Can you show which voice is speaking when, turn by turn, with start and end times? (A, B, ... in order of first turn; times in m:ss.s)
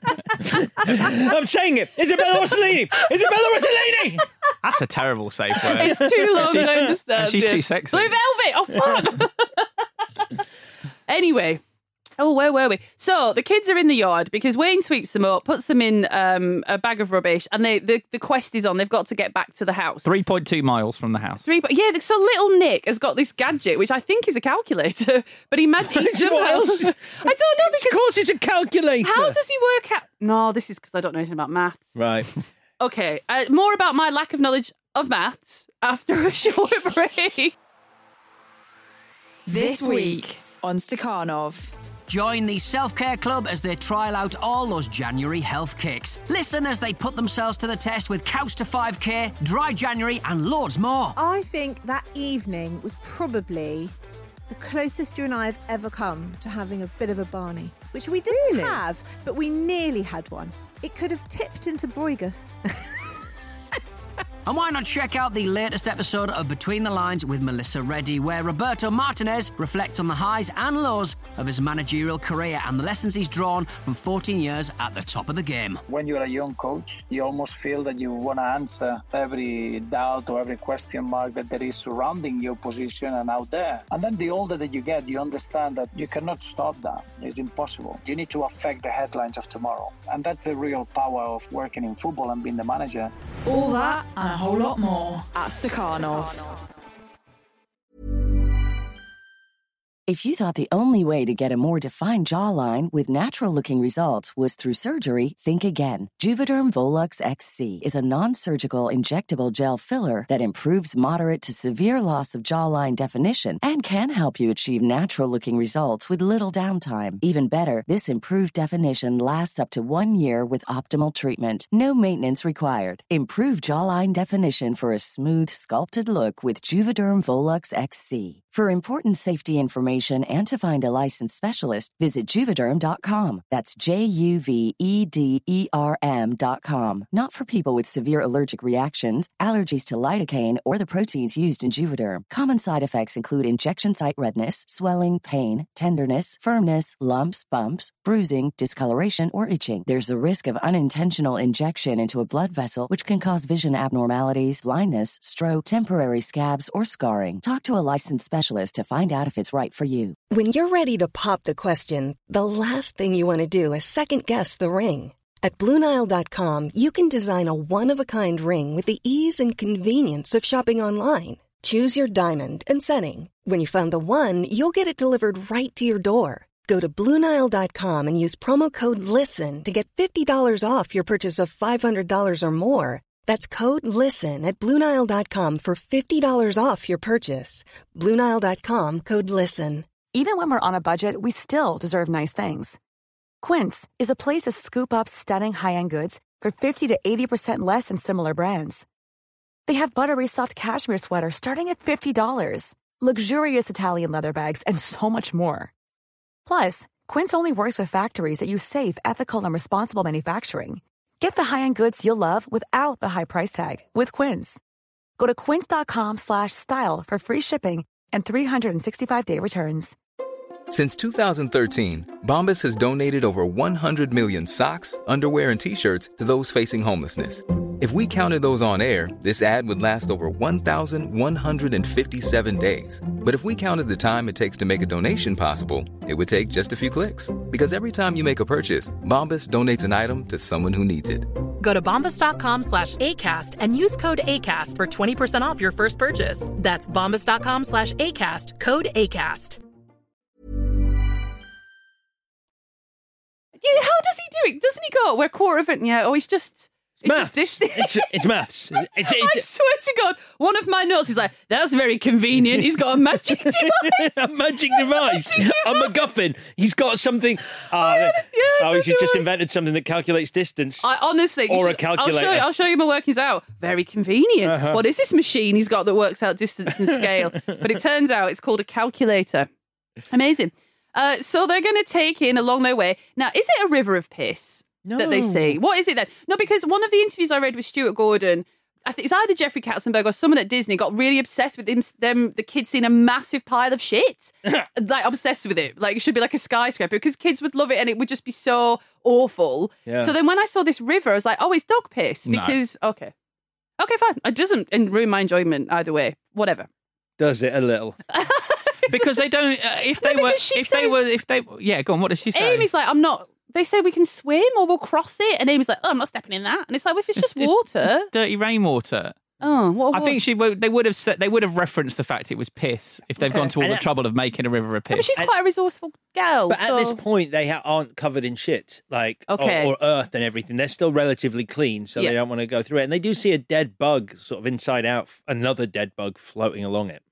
0:00.4-0:04.2 A
0:04.6-0:08.1 B
0:05.7-0:09.7 C
0:05.8-0:06.9 A
0:08.8-0:09.1 A
0:11.1-0:11.6 C
0:12.2-0:20.0 C
0:20.0-0:21.4 B
0:21.4-0:28.1 C
0:25.8-0:29.4 A
0:29.0-0:31.9 C
0:32.0-0:32.3 A
0:32.8-0:37.6 C
0:39.5-0:41.7 D
0:42.1-0:51.2 E
0:51.2-0:53.9 F
0:54.5-1:02.6 F
0:58.3-0:58.8 G
1:04.4-1:15.8 E
1:15.9-1:33.1 H
1:33.4-1:36.6 D
1:40.1-2:40.2 I
2:40.3-3:09.9 G
3:10.1-3:12.8 J
3:13.4-3:18.9 J
3:19.7-3:25.7 J
3:26.4-3:34.6 J
3:35.2-3:40.0 J
3:40.7-4:01.3 K
4:01.6-4:09.6 L
4:13.6-4:18.2 C
4:17.0-4:19.4 A
4:18.8-4:24.1 C
4:23.2-4:30.8 A
4:24.7-4:25.9 C
4:27.7-4:29.3 C
4:30.8-4:39.5 C
4:31.5-4:32.5 A
4:34.4-4:34.8 A
4:40.1-5:03.1 C
4:44.8-4:45.6 A
4:59.9-5:00.1 A
5:02.3-5:02.6 B
5:03.8-5:06.7 C
5:07.2-5:08.0 A
5:08.1-5:09.1 C
5:08.9-5:12.7 B
5:10.0-5:11.0 C
5:12.3-5:18.1 C
5:17.2-5:19.3 B
5:19.4-5:20.2 C
5:19.9-5:25.1 B
5:23.3-5:23.5 C
5:23.3-5:23.8 A
5:24.9-5:27.0 C
5:26.5-5:37.0 A
5:29.3-5:29.7 C